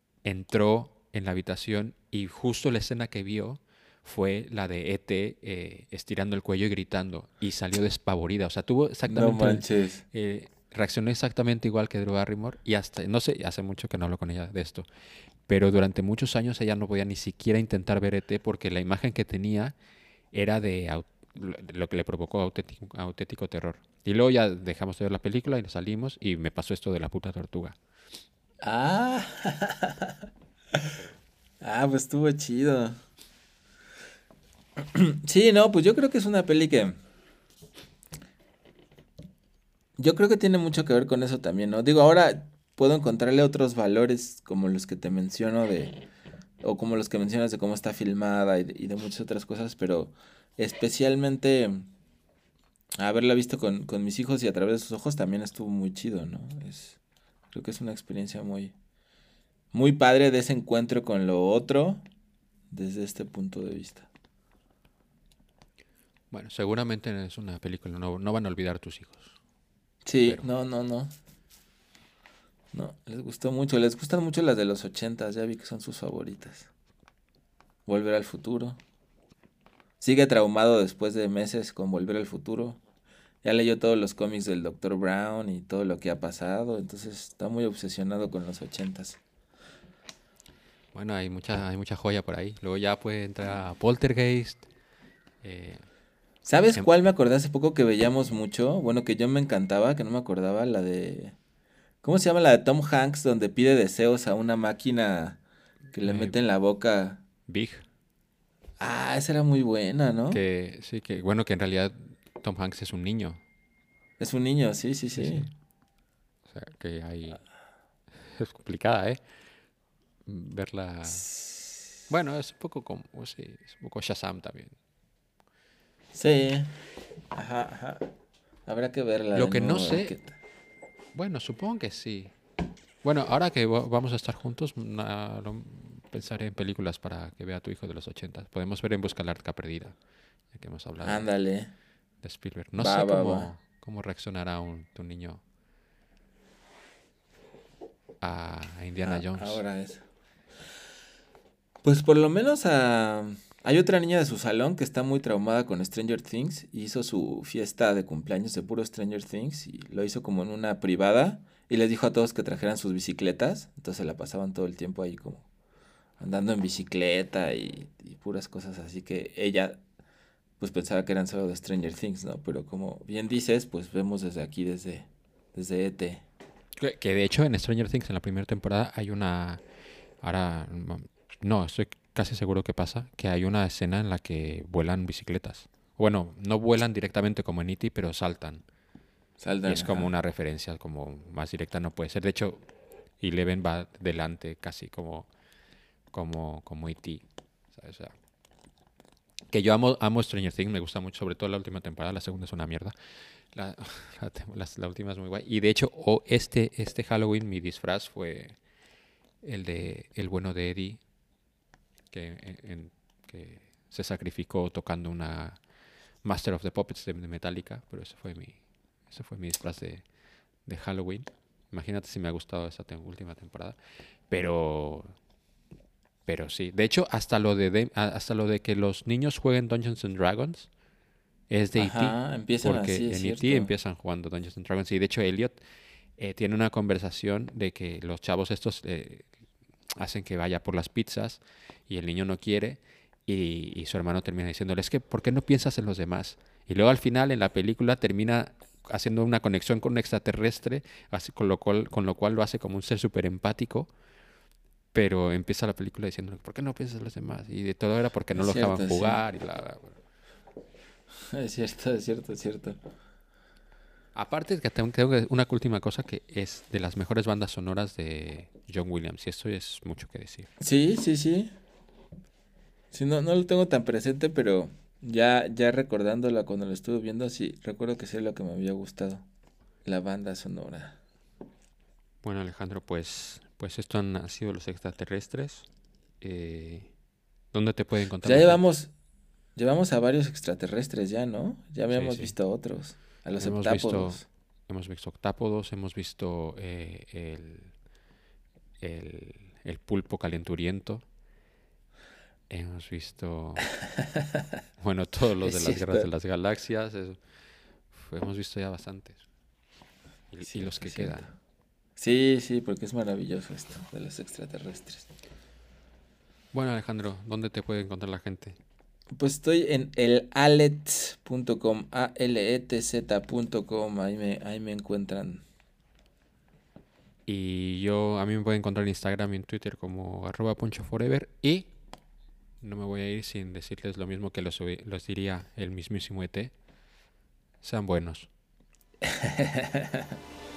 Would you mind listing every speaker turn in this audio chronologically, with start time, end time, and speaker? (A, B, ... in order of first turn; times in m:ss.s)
0:00.2-0:14.9 A
0:09.1-0:10.0 B
0:15.5-0:19.8 A
0:20.3-0:27.8 A
0:28.6-0:31.0 B
0:31.6-0:33.0 B
0:34.8-0:37.0 B
0:40.0-0:46.0 B
0:46.6-0:51.9 B
0:53.0-0:57.0 B
0:57.5-0:58.8 B
0:59.7-1:02.0 B
1:02.7-1:04.1 B
1:06.3-1:09.4 A
1:10.0-1:11.1 B
1:12.7-1:16.7 B
1:17.9-1:18.8 B
1:20.0-1:22.8 B
1:23.4-1:29.2 B
1:30.9-1:34.7 A
1:35.4-1:35.8 A
1:36.4-1:41.4 B
1:42.0-1:45.4 B
1:45.9-1:47.2 B
1:46.0-1:46.4 A
1:47.5-1:47.8 A
1:48.8-1:50.4 B
1:50.3-1:53.4 A
1:54.2-1:55.5 B
1:55.2-1:55.5 A
1:56.5-1:57.4 A
1:58.3-1:59.2 A
2:00.3-2:01.3 A
2:02.1-2:04.8 A
2:06.1-2:06.7 B
2:07.3-2:08.1 B
2:08.7-2:10.4 B
2:09.3-2:10.2 A
2:11.2-2:12.3 A
2:13.0-2:20.0 A
2:20.5-2:21.3 A
2:21.0-2:21.7 B
2:22.2-2:25.4 A
2:22.8-2:23.5 B
2:28.2-2:29.6 A
2:29.1-2:30.0 B
2:31.8-2:45.4 B
2:46.2-2:49.8 B
2:50.6-2:56.2 B
2:56.8-2:59.6 A
3:00.2-3:08.6 A
3:09.4-3:10.1 B
3:09.7-3:12.6 A
3:13.2-3:15.3 A
3:16.1-3:17.2 A
3:17.7-3:18.1 A
3:19.5-3:23.0 A
3:23.5-3:28.6 A
3:29.4-3:31.0 A
3:32.1-3:35.6 A
3:36.2-3:38.6 A
3:39.1-3:40.0 A
3:40.7-3:43.8 A
3:44.3-3:45.1 A
3:46.3-3:50.7 A
3:51.5-3:55.6 A
3:51.8-3:53.7 B
3:56.2-3:59.3 A
4:00.0-4:13.9 A
4:14.9-4:20.0 A
4:18.3-4:19.2 B
4:21.3-4:22.8 B
4:24.2-4:30.5 A
4:30.6-4:31.5 B
4:32.9-4:39.2 B
4:39.8-4:41.0 B
4:42.2-4:45.7 A
4:46.2-4:46.9 A
4:47.5-4:48.6 A
4:48.2-4:48.9 B
4:49.6-4:54.2 B
4:51.9-4:52.3 A
4:53.4-4:57.7 A
4:58.8-5:01.0 A
5:02.5-5:03.7 A
5:04.8-5:07.2 A
5:05.4-5:06.1 B
5:07.9-5:09.2 A
5:10.3-5:11.3 A
5:10.5-5:11.3 B
5:12.0-5:15.1 B
5:16.5-5:18.6 A
5:19.1-5:25.4 B
5:27.3-5:31.7 A
5:32.6-5:36.5 A
5:37.6-5:38.3 A
5:39.1-5:40.0 B